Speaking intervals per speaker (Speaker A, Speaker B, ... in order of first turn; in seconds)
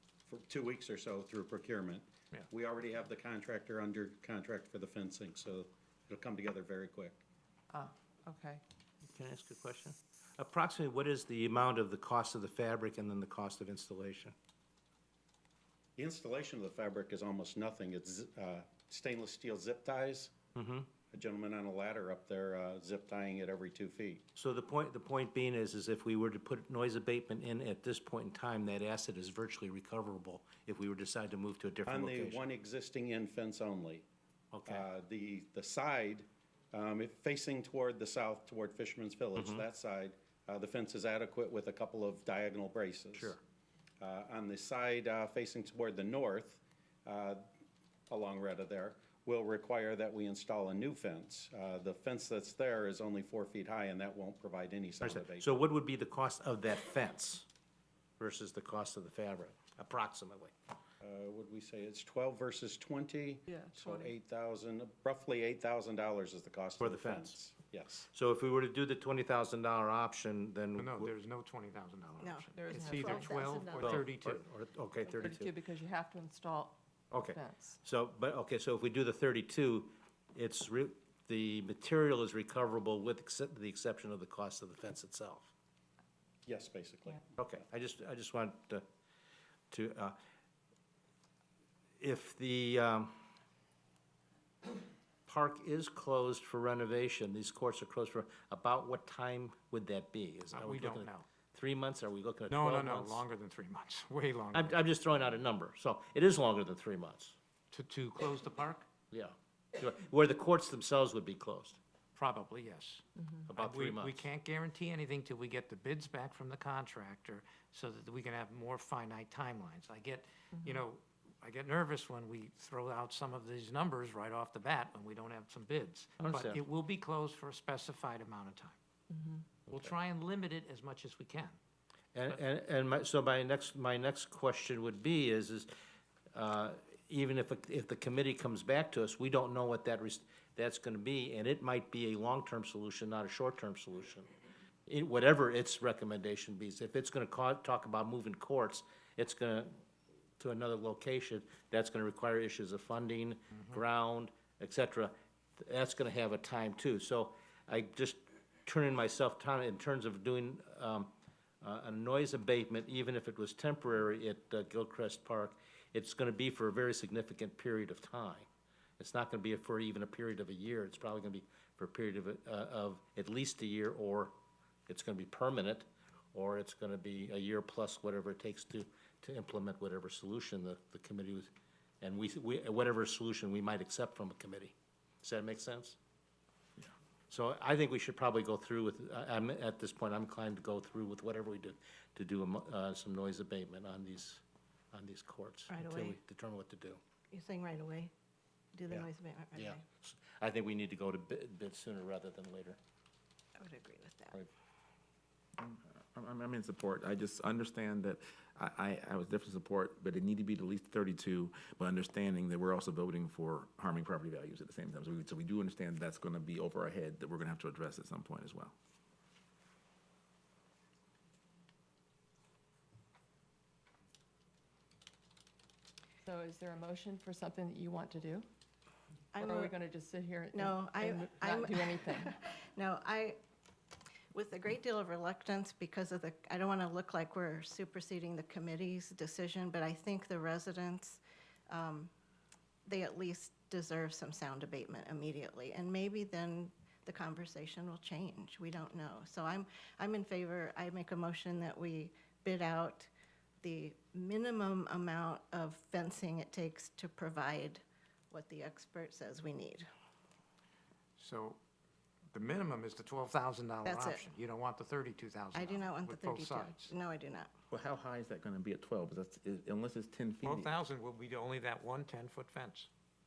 Speaker A: 0.3-7.2, 16.0-20.3, 21.1-24.3, 31.9-34.1, 34.7-43.4, 44.0-47.4, 48.1-55.5, 61.0-68.1, 86.5-87.6
Speaker B: 7.7-8.6, 63.5-64.1, 72.6-74.0, 75.1-76.8, 77.3-77.8, 129.1-129.4, 226.2-228.5, 229.4-232.3
Speaker C: 9.0-14.3, 20.6-20.9, 24.4-32.4, 34.5-34.9, 39.4-39.6, 43.1-43.4, 55.0-57.5, 58.2-60.5, 66.8-67.4, 68.1-71.1, 73.8-75.6, 77.1-85.5, 87.4-88.8, 89.7-90.2, 92.0-93.2, 95.3-103.3, 104.5-107.3, 109.1-111.8, 113.5-114.3, 126.2-126.6, 132.1-135.7, 136.3-144.3, 144.9-149.8, 150.4-168.5, 169.0-174.3, 174.9-181.5, 182.0-186.0, 187.3-194.4, 194.9-197.0, 198.9-202.8
Speaker D: 70.8-74.4, 100.5-101.2, 102.5-104.8, 107.7-108.9, 112.2-128.8, 129.7-131.6, 261.2-261.6, 262.3-266.9, 270.4-272.9
Speaker E: 72.2-73.6, 195.7-196.2, 197.3-198.1, 198.7-199.8, 203.6-204.4, 229.3-229.7, 230.5-233.4, 234.3-242.1, 242.9-253.1, 253.6-259.9, 263.9-264.3, 265.6-267.5
Speaker F: 205.6-218.7, 267.7-270.7